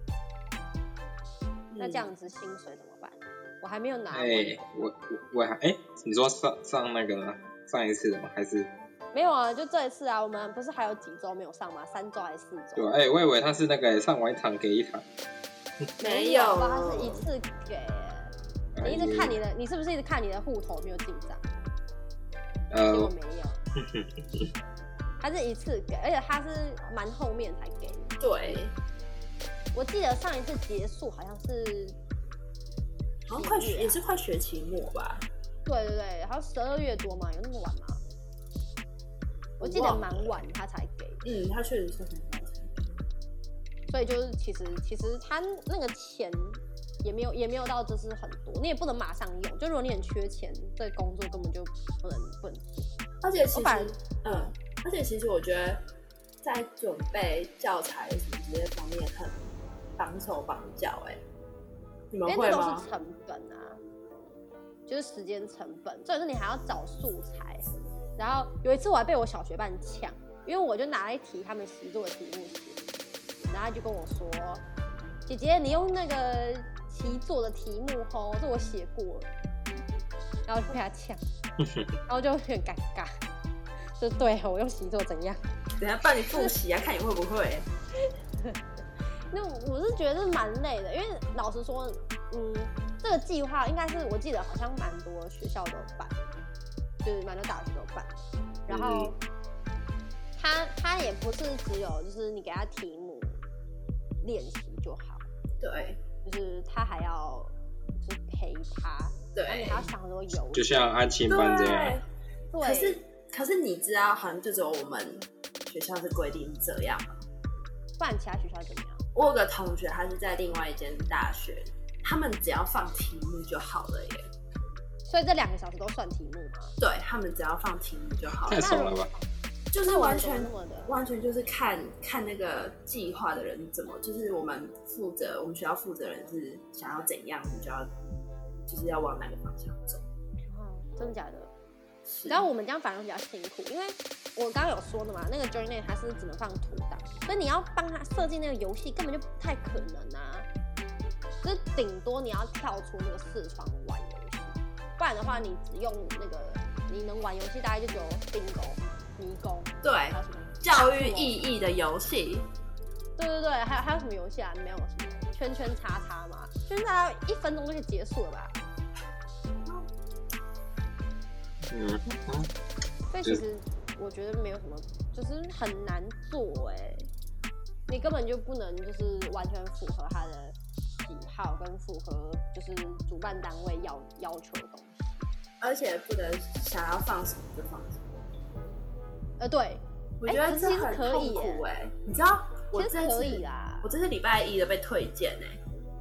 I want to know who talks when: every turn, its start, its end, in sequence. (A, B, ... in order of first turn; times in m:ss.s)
0:01.7-0:02.1 A
0:01.8-0:04.6 B
0:04.1-0:08.7 C
0:09.1-0:12.9 B
0:12.8-0:15.0 C
0:16.0-0:18.3 B
0:16.0-0:17.2 A
0:18.8-0:19.4 C
0:18.8-0:21.4 B
0:22.7-0:23.1 C
0:22.9-0:23.6 B
0:23.8-0:24.5 C
0:25.2-0:28.6 B
0:28.2-0:28.7 A
0:29.7-0:32.0 B
0:33.3-0:35.3 A
0:33.4-0:34.0 B
0:35.6-0:38.0 B
0:39.6-0:40.4 A
0:39.6-0:41.2 B
0:41.2-0:42.9 A
0:43.9-0:52.9 B
0:53.2-0:55.8 A
0:53.5-0:54.0 B
0:56.4-1:01.2 A
1:02.1-1:02.8 A
1:02.2-1:03.8 B
1:04.9-1:07.6 B
1:08.2-1:12.8 B
1:13.5-1:14.6 B
1:15.3-1:19.3 B
1:20.5-1:21.2 B
1:21.6-1:21.9 C
1:22.1-1:23.1 B
1:24.0-1:25.4 B
1:25.8-1:27.7 A
1:29.3-1:36.2 B
1:37.0-1:39.2 B
1:38.7-1:39.1 C
1:40.4-1:43.4 B
1:44.2-1:45.2 B
1:45.6-1:46.0 A
1:46.2-1:50.7 B
1:49.3-1:49.9 A
1:50.5-1:52.0 C
1:51.3-1:52.0 A
1:52.5-1:53.0 B
1:52.6-1:57.2 A
1:58.0-1:59.0 B
1:59.1-2:04.3 A
2:05.0-2:06.7 B
2:06.8-2:08.7 A
2:08.4-2:09.1 C
2:08.5-2:10.9 B
2:09.7-2:17.9 A
2:18.7-2:20.0 A
2:20.5-2:21.5 B
2:22.0-2:22.5 A
2:22.3-2:30.5 B
2:31.4-2:41.3 B
2:39.8-2:42.4 A
2:43.2-2:48.5 B
2:51.7-2:52.5 C
2:53.1-2:57.1 B
2:57.9-3:05.2 B
3:05.6-3:08.2 A
3:09.4-3:11.6 B
3:10.2-3:15.6 A
3:12.7-3:13.9 B